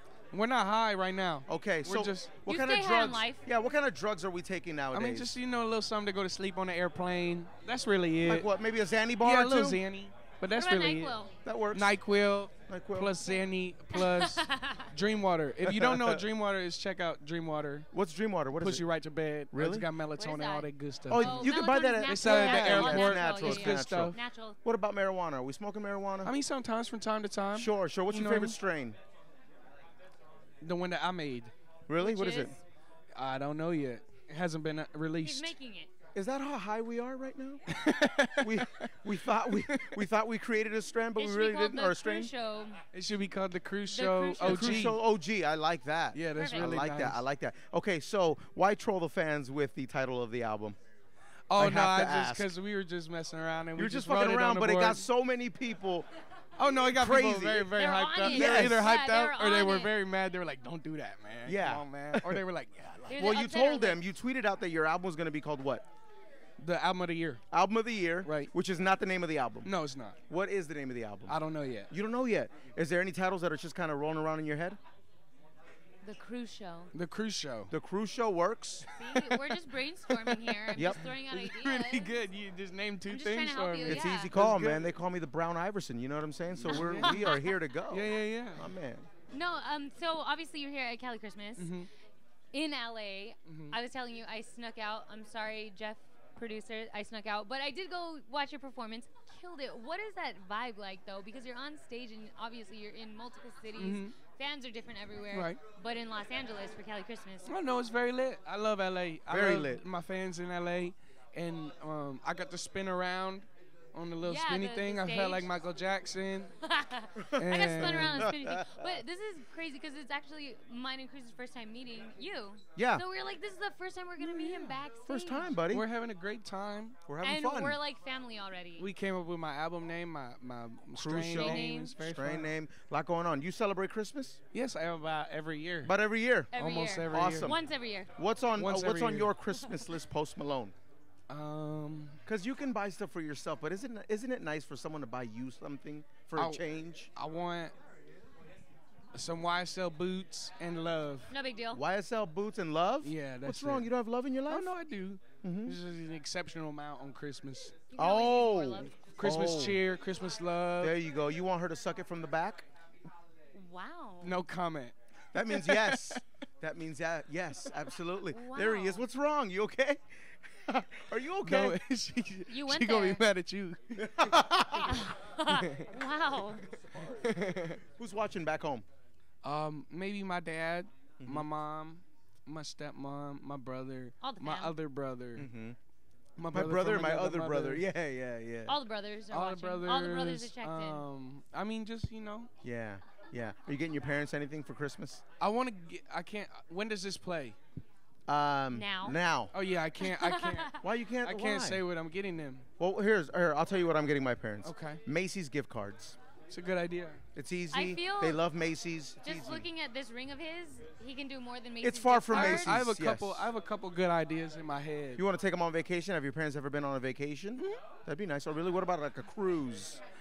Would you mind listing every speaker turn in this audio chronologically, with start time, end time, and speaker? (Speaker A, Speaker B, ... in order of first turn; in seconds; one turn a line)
Speaker A: 0.3-2.3
Speaker B: 1.5-5.3
Speaker C: 2.5-3.4
Speaker A: 4.9-8.5
Speaker B: 8.2-9.8
Speaker A: 9.2-11.1
Speaker C: 10.5-11.3
Speaker B: 11.4-11.9
Speaker A: 11.7-17.9
Speaker B: 12.7-13.1
Speaker C: 13.9-14.9
Speaker B: 15.7-16.2
Speaker B: 17.9-18.8
Speaker A: 18.6-24.2
Speaker B: 19.5-19.9
Speaker C: 20.1-24.6
Speaker B: 21.1-26.3
Speaker A: 26.2-28.6
Speaker B: 27.5-29.0
Speaker A: 30.6-31.5
Speaker B: 31.9-32.5
Speaker C: 32.0-32.6
Speaker A: 33.1-35.5
Speaker C: 35.2-35.9
Speaker B: 36.1-37.6
Speaker A: 37.7-38.9
Speaker B: 38.4-42.3
Speaker A: 39.5-40.0
Speaker C: 41.2-42.8
Speaker A: 42.9-45.0
Speaker C: 43.9-45.0
Speaker B: 44.4-50.8
Speaker A: 46.1-47.2
Speaker C: 46.3-46.7
Speaker A: 51.5-55.0
Speaker B: 51.5-52.5
Speaker B: 53.8-56.1
Speaker A: 56.6-63.3
Speaker B: 56.7-58.9
Speaker C: 57.7-59.9
Speaker B: 61.4-62.4
Speaker C: 63.1-64.0
Speaker B: 63.1-65.8
Speaker A: 66.6-67.4
Speaker B: 67.5-69.7
Speaker A: 68.2-68.5
Speaker A: 69.6-70.2
Speaker B: 70.3-71.3
Speaker A: 71.3-71.9
Speaker B: 71.9-74.8
Speaker C: 76.0-76.9
Speaker A: 76.9-77.7
Speaker B: 77.7-78.8
Speaker A: 79.0-79.6
Speaker C: 79.0-82.2
Speaker A: 80.1-84.9
Speaker C: 83.1-84.3
Speaker B: 83.8-89.1
Speaker A: 86.5-87.2
Speaker C: 86.7-87.5
Speaker A: 87.9-88.7
Speaker C: 89.3-91.8
Speaker A: 91.6-91.9
Speaker C: 92.5-107.5
Speaker A: 93.5-93.8
Speaker A: 103.8-104.1
Speaker A: 105.3-105.6
Speaker A: 107.4-116.5
Speaker B: 109.3-109.8
Speaker C: 114.2-115.5
Speaker C: 116.6-125.5
Speaker B: 117.2-119.0
Speaker A: 117.4-118.3
Speaker B: 122.8-123.0
Speaker A: 124.2-124.8
Speaker B: 125.1-125.8
Speaker A: 125.7-127.0
Speaker B: 127.1-127.8
Speaker C: 127.2-128.9
Speaker A: 128.8-132.5
Speaker B: 131.0-134.4
Speaker C: 131.2-132.0
Speaker A: 134.5-135.9
Speaker B: 135.8-136.5
Speaker C: 136.5-138.1
Speaker A: 136.5-137.5
Speaker B: 137.1-137.6
Speaker B: 138.2-140.7
Speaker A: 138.6-139.3
Speaker A: 141.3-142.2
Speaker B: 142.2-147.1
Speaker A: 146.3-147.7
Speaker A: 149.1-151.3
Speaker C: 151.3-151.8
Speaker B: 151.7-154.8
Speaker A: 153.0-153.9
Speaker A: 154.5-157.7
Speaker B: 155.4-155.8
Speaker C: 157.9-159.0
Speaker B: 157.9-159.8
Speaker A: 159.1-160.9
Speaker B: 160.8-162.6
Speaker C: 163.5-164.4
Speaker A: 164.2-164.9
Speaker B: 165.3-170.0
Speaker A: 165.5-166.2
Speaker C: 168.3-169.0
Speaker B: 170.6-171.8
Speaker A: 171.4-174.2
Speaker C: 172.5-173.2
Speaker B: 174.0-175.0
Speaker C: 174.8-176.7
Speaker A: 175.5-175.8
Speaker B: 176.9-177.3
Speaker A: 177.0-177.8
Speaker B: 177.8-178.8
Speaker A: 179.4-185.5
Speaker B: 181.2-181.5
Speaker C: 184.2-184.7
Speaker B: 185.4-185.8
Speaker A: 186.4-187.8
Speaker B: 186.5-188.8
Speaker C: 188.7-191.1
Speaker A: 189.3-192.5
Speaker B: 192.6-195.2
Speaker A: 195.4-197.6
Speaker B: 198.3-199.5
Speaker C: 198.7-199.2
Speaker A: 199.5-202.7
Speaker C: 200.0-200.9
Speaker B: 200.8-201.8
Speaker B: 202.8-206.2
Speaker A: 204.6-205.0
Speaker A: 206.5-207.2
Speaker B: 207.3-209.7
Speaker C: 207.7-208.4
Speaker C: 209.2-212.8
Speaker B: 211.8-213.5
Speaker A: 212.3-215.2
Speaker B: 215.2-220.0